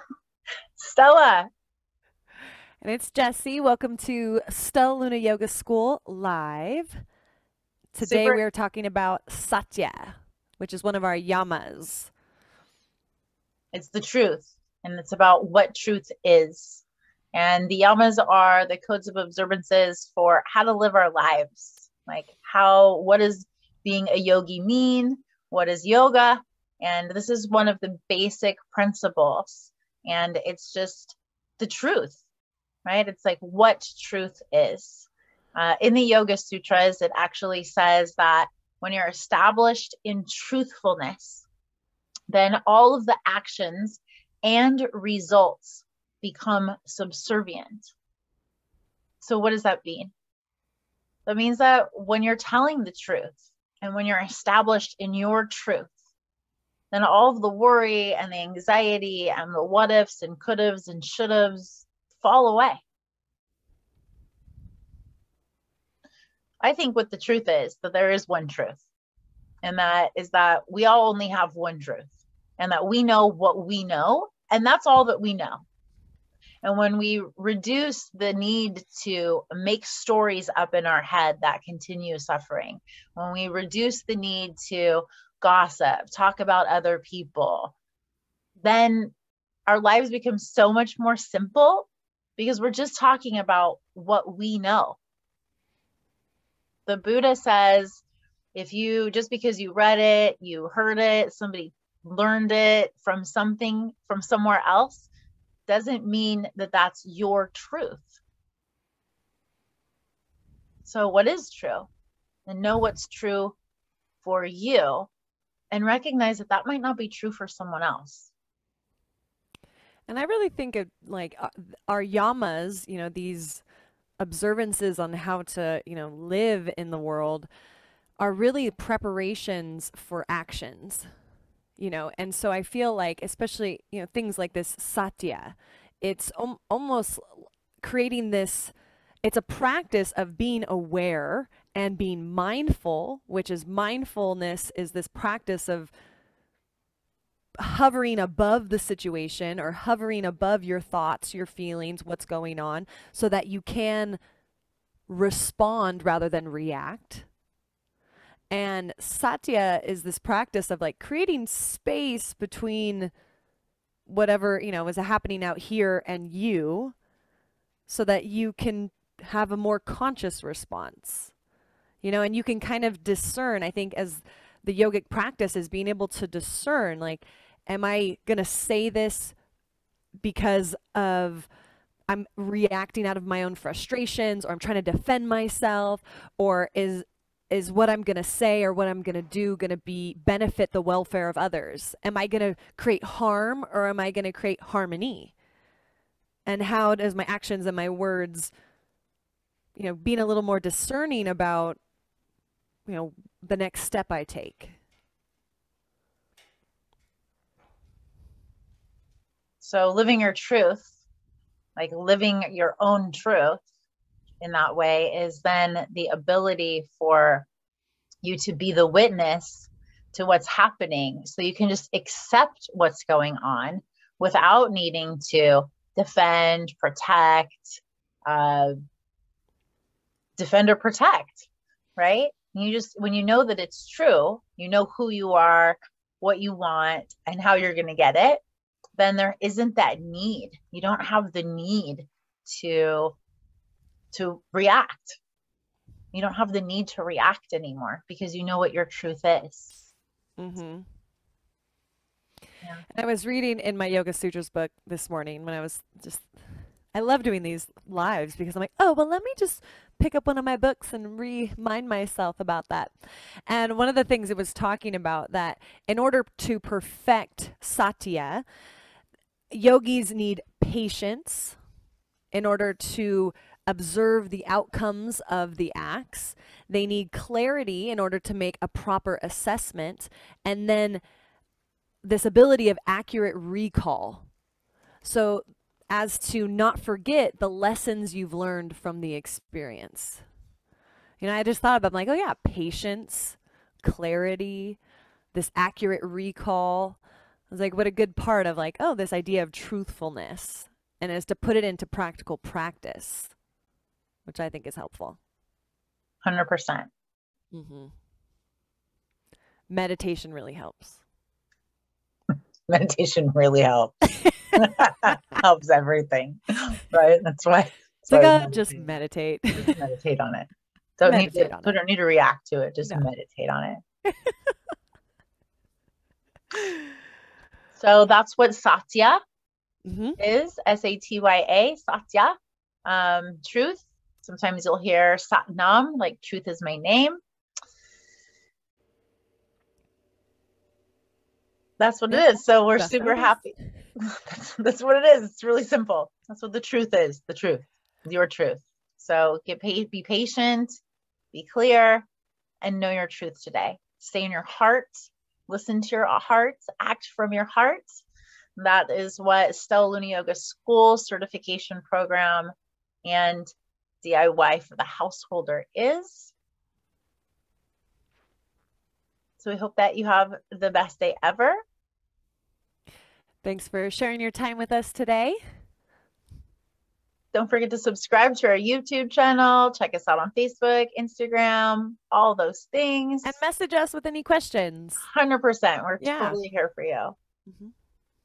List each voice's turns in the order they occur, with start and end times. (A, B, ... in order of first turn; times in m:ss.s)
0:00.8-0:01.5 A
0:02.8-0:07.0 B
0:07.9-0:12.1 B
0:08.0-0:08.4 A
0:13.7-0:32.2 A
0:32.8-0:41.5 A
0:42.3-0:47.9 A
0:49.2-0:50.1 A
0:51.3-0:55.9 A
0:56.9-1:02.8 A
1:06.6-1:08.8 A
1:09.6-1:15.6 A
1:16.6-1:27.7 A
1:28.6-1:29.1 A
1:29.7-1:35.0 A
1:36.9-1:38.0 A
1:38.5-1:45.1 A
1:45.7-1:48.1 A
1:50.8-1:51.9 A
1:52.5-1:53.6 A
1:54.2-1:55.1 A
1:55.7-1:58.3 A
2:00.1-2:03.6 B
2:04.2-2:07.5 B
2:08.2-2:11.1 B
2:11.8-2:18.7 B
2:19.2-2:25.9 B
2:27.6-2:34.2 B
2:35.1-2:37.3 B
2:38.5-2:43.1 B
2:44.1-2:47.0 B
2:47.9-2:51.3 B
2:52.0-2:59.4 B
3:00.2-3:01.5 B
3:02.1-3:15.3 B
3:16.5-3:18.5 B
3:19.8-3:21.8 B
3:22.9-3:24.8 B
3:29.6-3:30.9 A
3:31.8-3:33.6 A
3:34.4-3:37.5 A
3:38.2-3:48.8 A
3:50.4-3:58.4 A
3:59.0-4:03.2 A
4:04.1-4:05.2 A
4:06.1-4:09.8 A
4:10.4-4:10.8 B
4:12.9-4:16.3 B
4:16.9-4:28.4 B
4:29.5-4:31.6 B
4:32.3-4:41.0 B
4:42.0-4:44.3 B
4:45.0-4:50.2 B
4:51.2-4:54.8 B
4:55.3-4:57.0 B
4:57.5-5:03.3 B
5:04.3-5:05.2 B
5:06.2-5:06.9 A
5:07.5-5:07.9 B
5:09.7-5:11.0 B
5:12.7-5:14.0 A
5:14.6-5:18.6 A
5:18.1-5:19.8 B
5:19.5-5:23.8 A
5:21.0-5:21.8 B
5:27.8-5:29.2 A
5:29.8-5:30.2 B
5:30.2-5:32.3 A
5:32.8-5:37.2 A
5:41.8-5:50.7 A
5:42.1-5:43.5 B
5:51.3-5:52.1 A
5:52.6-5:58.0 A
5:58.6-6:02.5 A
6:03.0-6:03.5 A
6:04.0-6:06.3 A
6:09.4-6:11.6 A
6:13.4-6:15.4 B
6:17.3-6:23.4 A
6:23.2-6:25.1 B
6:25.1-6:27.2 A
6:26.0-6:26.4 B
6:27.5-6:27.7 B